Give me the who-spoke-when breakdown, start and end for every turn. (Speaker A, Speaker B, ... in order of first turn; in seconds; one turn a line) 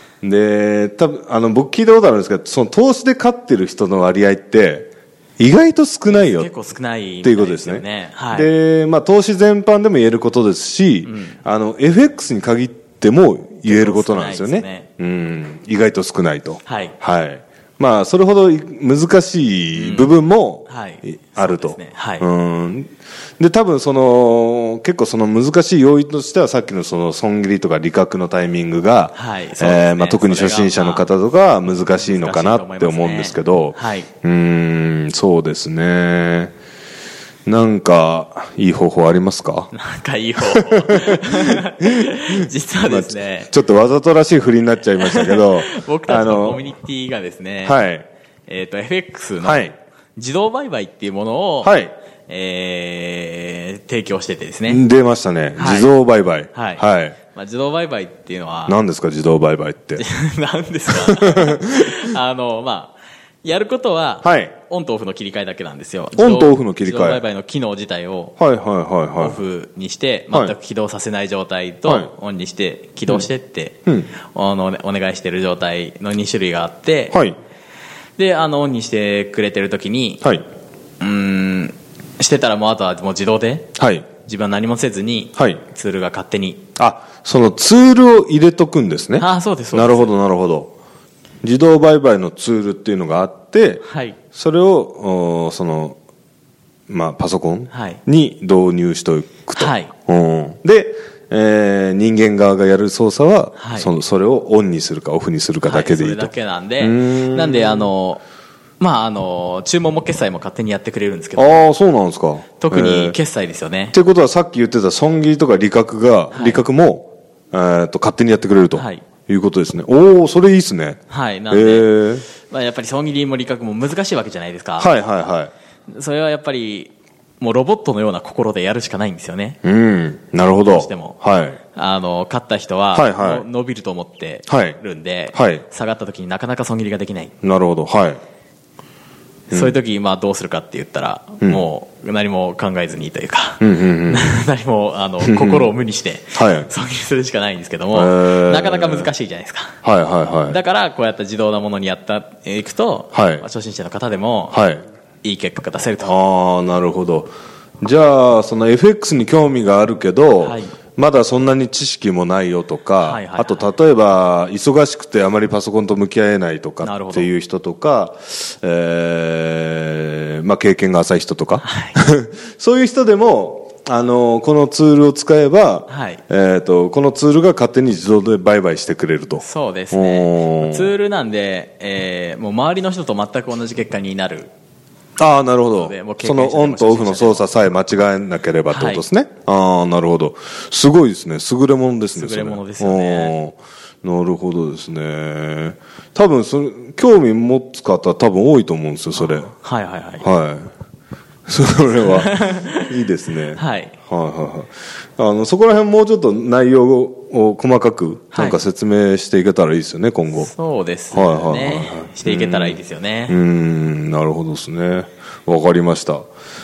Speaker A: 0.2-6.5
Speaker B: 6.1-8.5
Speaker A: 7.2-36.5
Speaker B: 11.0-11.4
Speaker B: 13.7-14.9
Speaker B: 16.6-16.9
Speaker B: 19.7-20.1
Speaker B: 20.7-22.3
Speaker B: 29.1-31.1
Speaker B: 31.8-34.1
Speaker A: 37.5-39.7
Speaker B: 39.7-43.5
Speaker A: 40.5-46.7
Speaker B: 45.0-47.8
Speaker A: 47.6-48.0
Speaker B: 48.5-51.7
Speaker A: 49.4-49.7
Speaker A: 51.6-51.9
Speaker B: 52.3-54.8
Speaker A: 54.7-57.2
Speaker B: 55.5-55.9
Speaker B: 56.5-58.8
Speaker A: 58.7-60.0
Speaker B: 60.0-68.3
Speaker A: 60.9-62.0
Speaker A: 64.2-64.5
Speaker A: 66.2-67.2
Speaker A: 68.4-69.4
Speaker B: 69.2-77.2
Speaker A: 71.8-72.1
Speaker B: 78.2-80.2
Speaker B: 81.0-86.6
Speaker A: 83.8-84.1
Speaker A: 86.8-90.7
Speaker B: 89.2-90.1
Speaker A: 91.4-93.8
Speaker B: 93.8-94.2
Speaker A: 94.3-96.0
Speaker A: 96.9-107.9
Speaker B: 97.7-98.0
Speaker B: 99.5-99.9
Speaker B: 103.6-103.9
Speaker B: 105.6-108.2
Speaker B: 108.8-111.7
Speaker A: 111.3-113.2
Speaker B: 112.6-113.9
Speaker A: 113.9-122.2
Speaker B: 116.3-116.6
Speaker B: 118.7-119.0
Speaker B: 121.1-121.9
Speaker B: 122.4-124.9
Speaker A: 124.8-125.5
Speaker B: 125.9-129.6
Speaker A: 129.6-131.6
Speaker B: 130.7-131.2
Speaker B: 131.7-137.3
Speaker A: 132.9-133.4
Speaker A: 134.5-134.8
Speaker A: 135.3-135.6
Speaker A: 137.4-138.2
Speaker B: 139.5-149.8
Speaker A: 139.5-139.8
Speaker A: 143.6-144.4
Speaker A: 145.2-145.8
Speaker A: 146.3-146.7
Speaker A: 147.9-149.1
Speaker A: 149.8-150.6
Speaker B: 150.5-154.6
Speaker A: 153.1-153.4
Speaker A: 154.5-154.8
Speaker B: 155.2-156.1
Speaker A: 156.0-180.9
Speaker B: 160.4-160.7
Speaker B: 163.0-163.7
Speaker B: 166.8-167.3
Speaker B: 171.6-171.9
Speaker B: 175.9-176.2
Speaker B: 179.4-184.5
Speaker A: 185.2-199.5
Speaker B: 185.7-187.5
Speaker B: 188.7-189.0
Speaker B: 192.1-193.3
Speaker B: 199.2-200.2
Speaker A: 200.2-200.7
Speaker A: 201.5-210.5
Speaker B: 201.9-202.9
Speaker B: 203.5-203.9
Speaker B: 208.3-208.6
Speaker B: 210.3-213.4
Speaker A: 211.1-216.3